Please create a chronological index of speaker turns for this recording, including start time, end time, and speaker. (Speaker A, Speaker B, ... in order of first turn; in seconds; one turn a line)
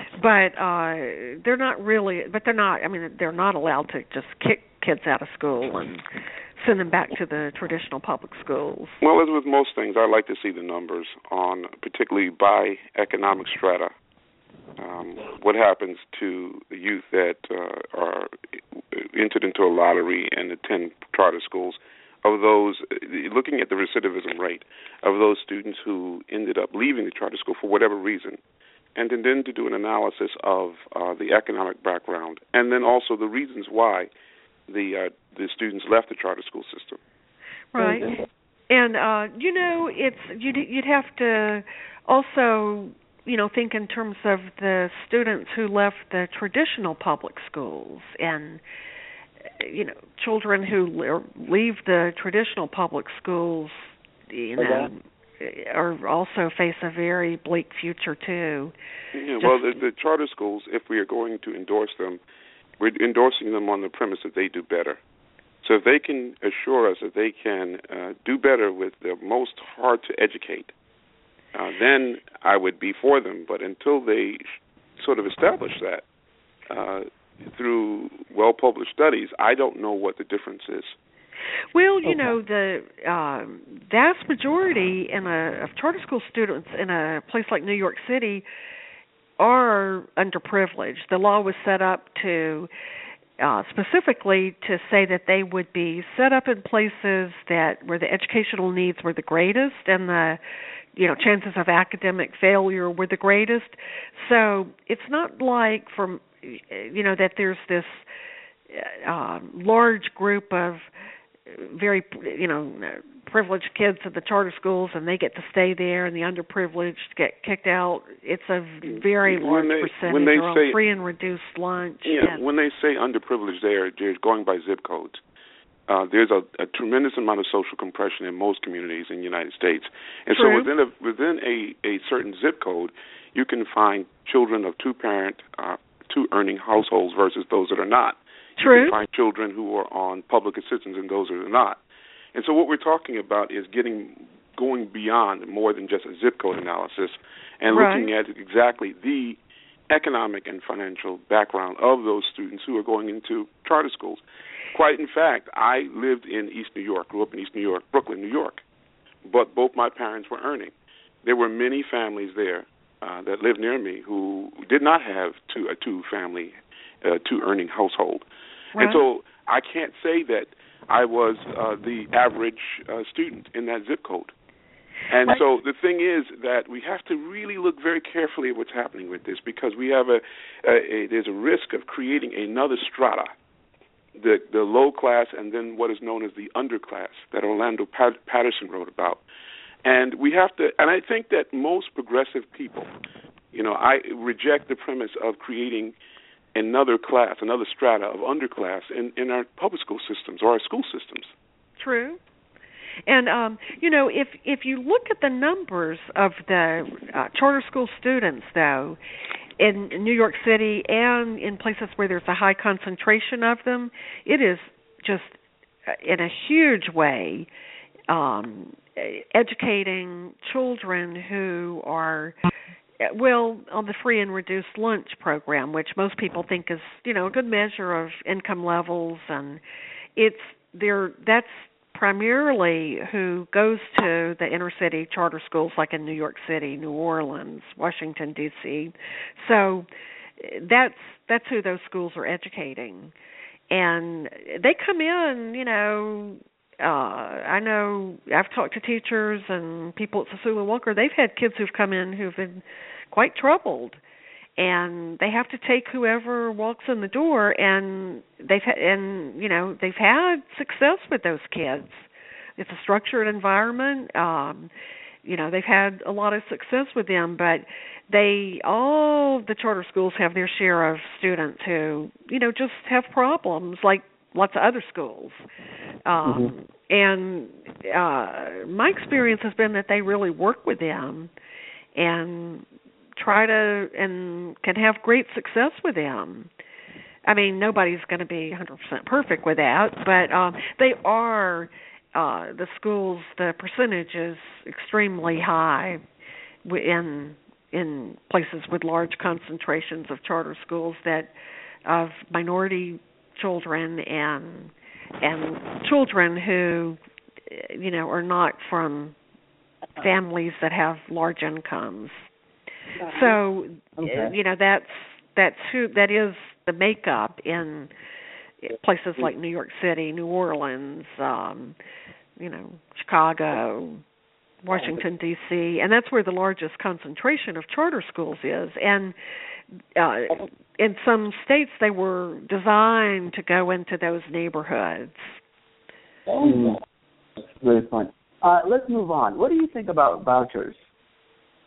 Speaker A: 0.2-6.0
Speaker A: 6.6-9.0
Speaker B: 9.0-13.9
Speaker B: 14.8-18.3
Speaker B: 18.9-28.4
Speaker B: 28.9-34.1
Speaker B: 34.7-37.0
Speaker A: 37.7-38.1
Speaker C: 37.8-38.1
Speaker A: 38.7-48.6
Speaker A: 49.6-58.7
Speaker C: 54.6-54.9
Speaker B: 59.1-62.2
Speaker B: 62.8-65.0
Speaker B: 65.6-70.7
Speaker B: 71.5-76.0
Speaker B: 76.7-81.0
Speaker A: 81.7-88.5
Speaker C: 82.0-82.3
Speaker A: 89.4-92.7
Speaker A: 93.4-100.4
Speaker A: 101.0-108.0
Speaker A: 108.7-110.9
Speaker A: 111.5-122.4
Speaker B: 118.8-120.8
Speaker B: 122.0-125.2
Speaker B: 125.9-141.8
Speaker A: 130.3-130.7
Speaker A: 138.6-139.0
Speaker B: 142.3-149.4
Speaker A: 147.7-148.1
Speaker B: 149.9-158.6
Speaker B: 159.2-160.7
Speaker B: 161.2-174.3
Speaker A: 168.8-169.0
Speaker B: 175.1-183.3
Speaker B: 184.2-189.2
Speaker B: 189.8-192.9
Speaker B: 193.5-195.9
Speaker B: 196.5-201.3
Speaker A: 201.8-202.2
Speaker A: 203.1-209.0
Speaker A: 209.6-215.3
Speaker A: 215.9-217.5
Speaker A: 218.1-222.4
Speaker A: 223.0-229.6
Speaker A: 230.2-239.9
Speaker A: 240.4-243.1
Speaker A: 243.7-254.0
Speaker A: 254.6-264.7
Speaker A: 265.2-275.4
Speaker A: 276.1-281.3
Speaker C: 276.2-276.5
Speaker A: 281.9-282.6
Speaker A: 283.2-286.5
Speaker A: 287.3-296.0
Speaker A: 296.6-301.3
Speaker A: 301.9-309.1
Speaker A: 310.0-312.2
Speaker A: 313.0-317.9
Speaker C: 314.0-314.3
Speaker A: 318.6-321.8
Speaker A: 322.4-324.0
Speaker A: 324.6-329.1
Speaker A: 329.9-335.3
Speaker C: 336.4-336.8
Speaker C: 337.6-340.8